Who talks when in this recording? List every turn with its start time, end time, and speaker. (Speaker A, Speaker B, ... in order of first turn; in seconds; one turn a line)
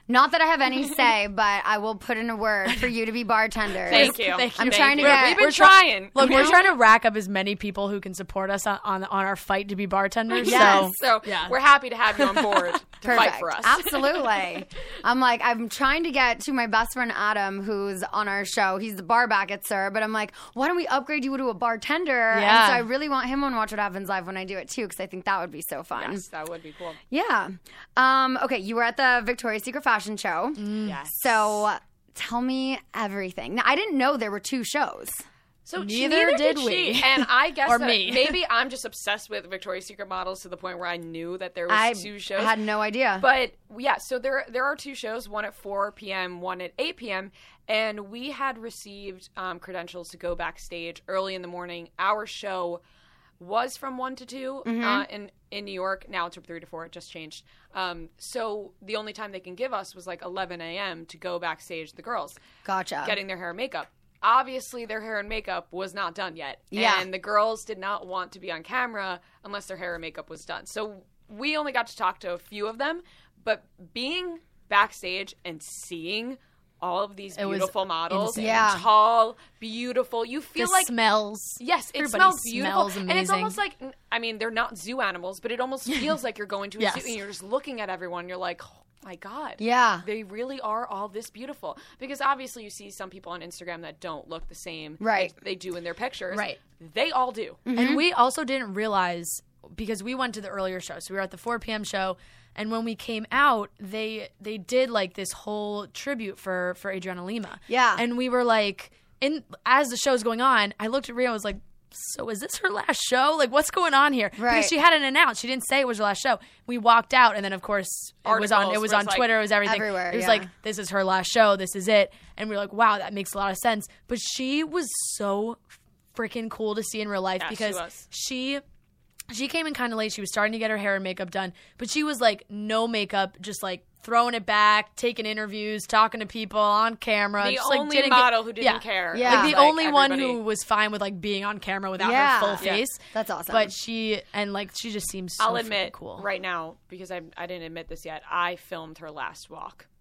Speaker A: 0.1-5.6
Speaker B: 3.9-6.7
Speaker C: 3.9-11.6
Speaker A: 6.2-6.6
Speaker B: 10.3-14.4
Speaker A: 10.4-11.0
Speaker C: 12.1-13.1
Speaker A: 13.0-26.2
Speaker C: 22.3-22.9
Speaker B: 25.9-27.0
Speaker A: 27.1-35.2
Speaker C: 30.6-31.0
Speaker B: 30.8-31.5
Speaker B: 35.7-42.6
Speaker C: 35.8-38.4
Speaker A: 41.7-43.3
Speaker B: 43.2-52.8
Speaker B: 53.4-62.4
Speaker A: 54.6-55.1
Speaker A: 62.6-63.2
Speaker B: 63.0-80.9
Speaker A: 66.7-67.1
Speaker C: 77.4-78.7
Speaker A: 78.4-78.8
Speaker C: 80.6-83.6
Speaker B: 81.6-97.6
Speaker C: 86.8-87.1
Speaker A: 89.6-90.0
Speaker A: 95.0-95.3
Speaker C: 96.3-96.6
Speaker A: 97.7-98.0
Speaker C: 97.7-128.6
Speaker A: 107.7-108.0
Speaker A: 114.4-114.7
Speaker B: 118.2-119.4
Speaker A: 119.6-120.5
Speaker B: 127.4-128.1
Speaker C: 129.3-146.3
Speaker B: 137.4-140.4
Speaker A: 139.1-139.6
Speaker A: 142.0-143.8
Speaker B: 145.4-149.9